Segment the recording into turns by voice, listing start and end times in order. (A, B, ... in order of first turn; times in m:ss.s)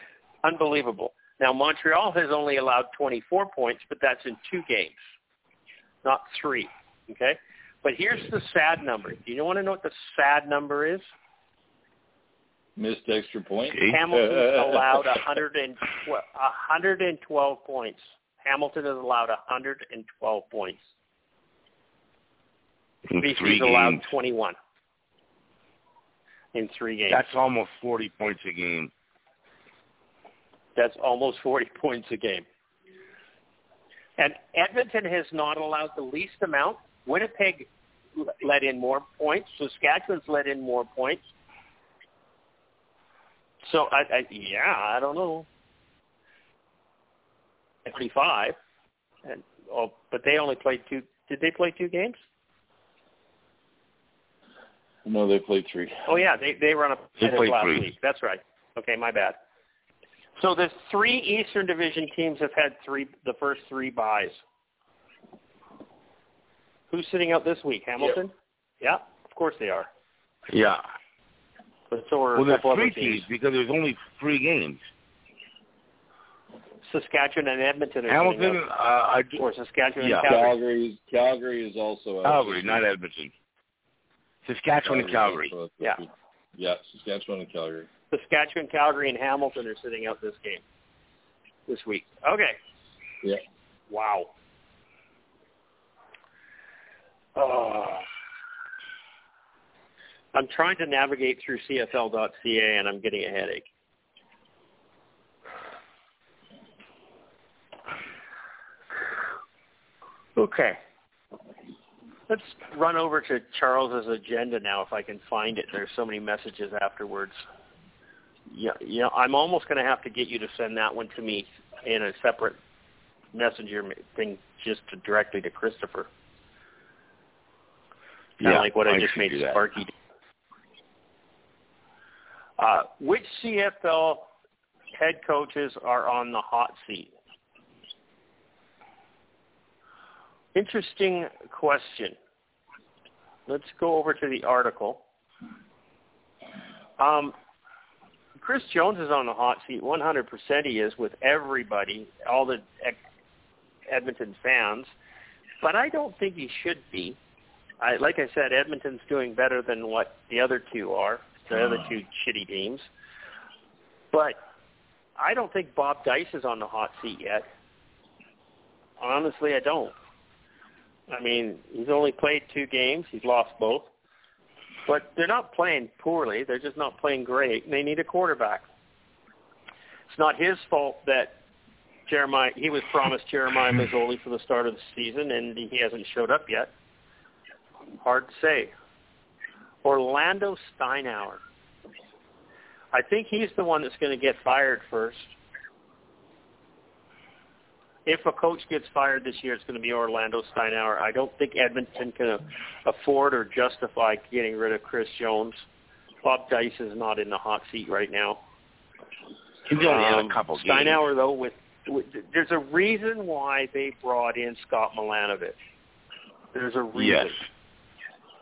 0:00.4-0:05.0 A
0:06.0-0:11.0 A
0:12.8-0:15.0 B
0:13.9-0:20.8 A
0:23.1-0:24.0 C
0:23.2-0:24.6 A
0:26.5-0:27.2 A
0:27.1-0:28.9 C
0:30.8-0:32.4 A
0:34.2-0:41.2 A
0:43.6-0:45.5 A
0:47.9-0:48.6 A
0:49.2-0:52.2 A
0:55.0-0:56.1 B
0:56.1-0:59.4 A
0:57.2-0:57.8 C
1:00.4-1:04.4 A
1:06.9-1:09.9 A
1:10.5-1:10.8 C
1:11.9-1:13.3 A
1:12.4-1:14.8 C
1:16.9-1:18.6 A
1:18.1-1:19.4 C
1:19.4-1:20.6 A
1:20.0-1:20.3 C
1:20.2-1:22.8 B
1:22.2-1:23.3 C
1:24.5-1:25.5 C
1:24.8-1:27.9 B
1:28.1-1:30.6 A
1:31.7-1:32.6 A
1:33.9-1:34.3 A
1:37.4-1:38.0 A
1:40.3-1:43.7 A
1:50.4-1:50.8 A
1:52.3-1:57.4 A
1:58.5-2:02.6 A
2:03.3-2:06.1 A
2:08.4-2:09.6 C
2:08.4-2:09.9 A
2:12.6-2:14.3 A
2:15.0-2:17.1 A
2:20.6-2:22.2 A
2:23.5-2:25.0 A
2:27.0-2:27.4 A
2:28.4-2:33.0 A
2:33.9-2:34.9 A
2:35.6-2:37.2 A
2:37.8-2:42.9 A
2:44.1-2:44.4 A
2:45.2-2:47.5 A
2:49.0-2:49.9 A
2:51.1-2:53.9 A
2:54.9-2:58.6 A
3:00.1-3:01.4 A
3:02.1-3:06.7 A
3:08.0-3:08.7 A
3:09.8-3:11.4 A
3:12.9-3:15.4 A
3:18.1-3:25.6 A
3:26.2-3:28.4 A
3:29.7-3:31.0 C
3:29.8-3:35.6 A
3:36.5-3:37.4 A
3:37.0-3:37.3 C